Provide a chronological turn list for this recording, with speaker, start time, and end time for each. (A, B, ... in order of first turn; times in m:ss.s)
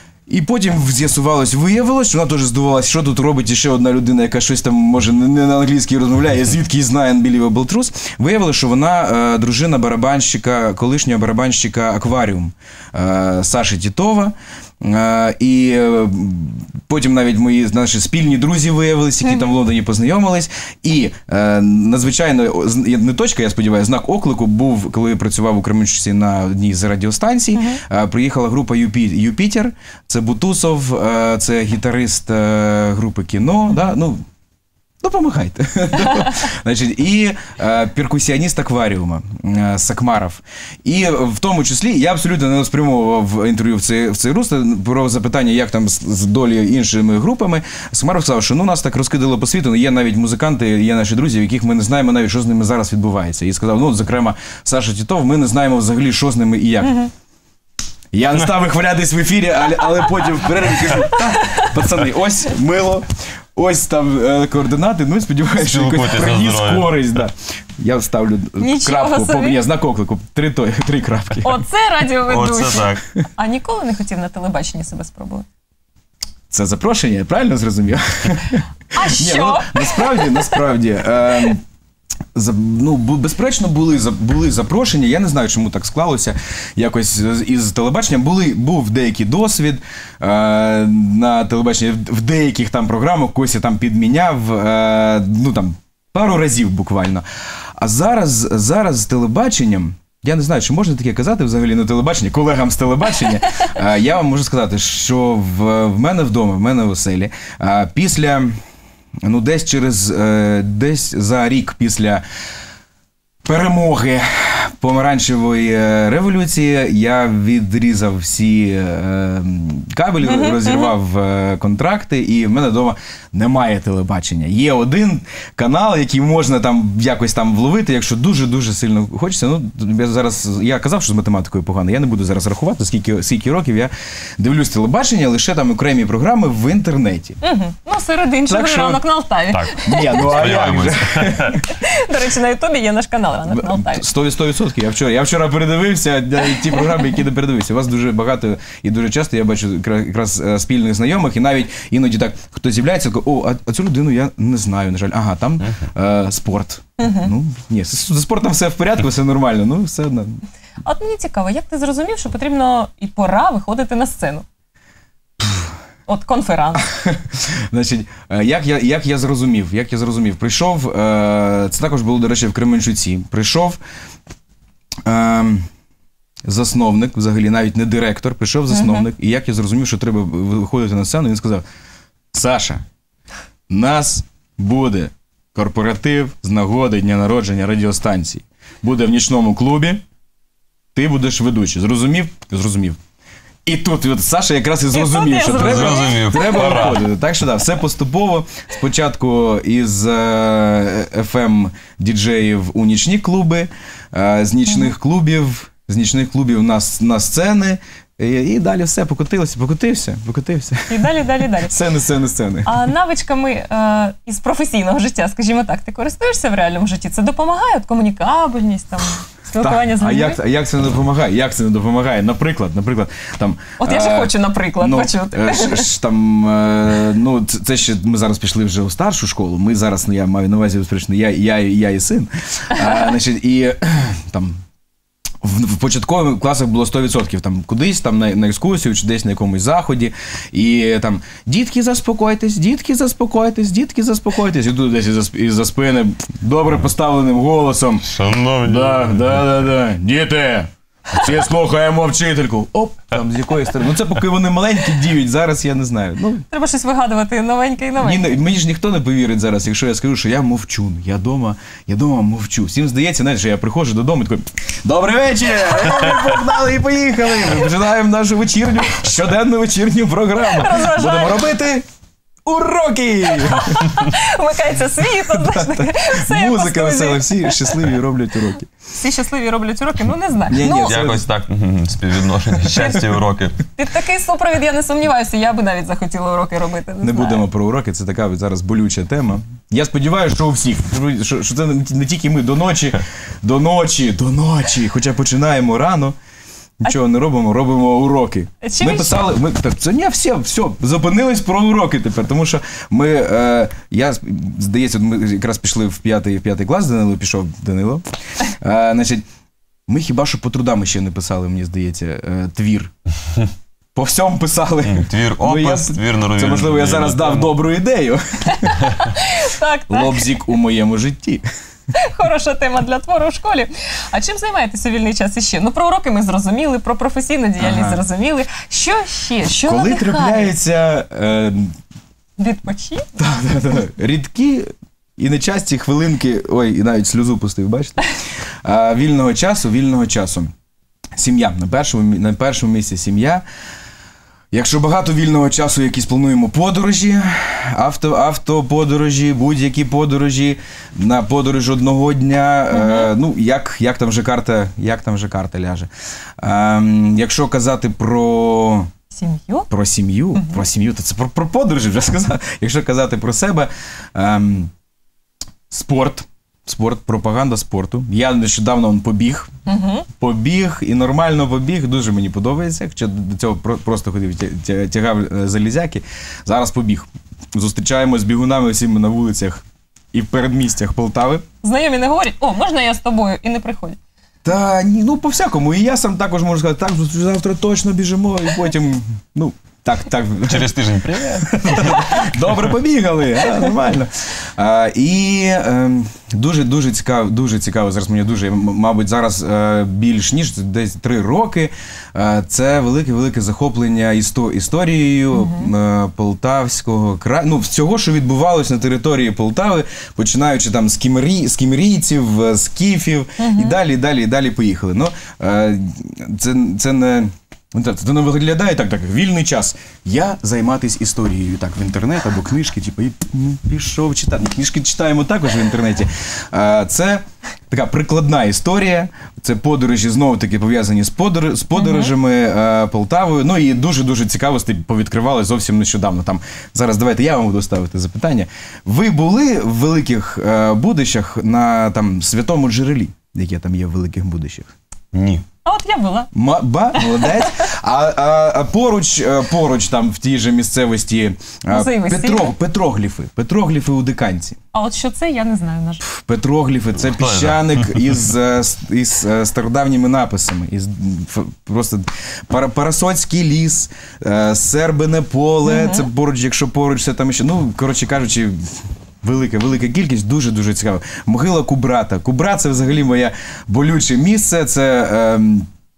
0:00.3-0:34.2 A
0:27.6-0:27.8 B
0:35.0-0:57.0 A
0:56.8-0:57.1 B
0:58.1-1:11.6 A
1:01.0-1:01.7 B
1:05.6-1:06.9 C
1:08.6-1:09.6 B
1:11.4-1:15.5 B
1:12.3-1:13.0 C
1:16.5-1:21.6 A
1:18.9-1:20.6 B
1:22.3-1:37.2 A
1:37.8-1:48.6 A
1:49.2-1:52.2 A
1:53.4-2:17.4 A
2:00.2-2:00.9 B
2:17.4-2:20.6 B
2:18.5-2:19.0 A
2:19.5-2:21.6 C
2:19.8-2:21.7 A
2:21.6-2:24.1 B
2:23.5-2:40.4 A
2:37.0-2:37.3 B
2:40.8-2:44.4 B
2:45.4-2:45.7 A
2:46.1-2:46.9 B
2:46.8-2:53.8 A
2:55.0-2:55.7 A
2:56.5-3:01.6 A
2:58.7-2:59.1 B
3:02.3-3:02.8 A
3:03.7-3:10.0 A
3:11.0-3:13.0 A
3:13.7-3:32.8 A
3:14.9-3:17.0 B
3:15.4-3:17.1 C
3:30.9-3:31.8 B
3:32.6-3:40.4 B
3:39.6-3:54.6 A
3:43.8-3:45.9 B
3:55.4-4:08.1 A
4:08.1-4:09.3 C
4:08.6-4:16.5 A
4:16.5-4:18.3 B
4:18.0-4:31.8 A
4:30.4-4:31.4 B
4:32.4-4:34.0 A
4:33.4-4:37.8 B
4:35.1-4:38.7 A
4:39.0-4:41.0 B
4:40.5-4:41.3 A
4:40.8-4:43.6 C
4:43.7-4:47.4 B
4:47.0-4:56.2 A
4:56.8-5:09.2 A
4:58.6-4:59.2 B
5:09.9-5:12.9 A
5:14.0-5:18.8 A
5:14.9-5:17.5 C
5:18.5-5:20.3 B
5:19.9-5:21.4 A
5:21.9-5:30.5 B
5:27.6-5:28.0 A
5:29.7-5:31.8 A
5:32.4-5:33.1 B
5:33.2-5:38.1 A
5:38.6-5:40.5 A
5:41.2-5:43.4 A
5:44.5-5:55.9 A
5:52.7-5:53.1 B
5:56.4-5:58.9 A
5:59.1-5:59.7 B
5:59.7-6:04.7 A
6:00.4-6:00.6 B
6:05.7-6:09.5 A
6:09.7-6:10.1 B
6:10.1-6:21.4 A
6:21.6-6:24.0 B
6:24.4-6:30.8 A
6:30.4-6:32.5 C
6:31.4-7:24.7 A
6:45.3-6:45.7 B
6:53.4-6:53.8 B
7:11.8-7:12.1 B
7:25.1-7:25.4 C
7:25.6-7:26.3 B
7:26.3-7:34.6 A
7:27.0-7:27.6 B
7:31.7-7:32.5 B
7:34.7-7:36.0 B
7:36.0-7:55.7 A
7:37.0-7:38.2 C
7:45.6-7:46.1 B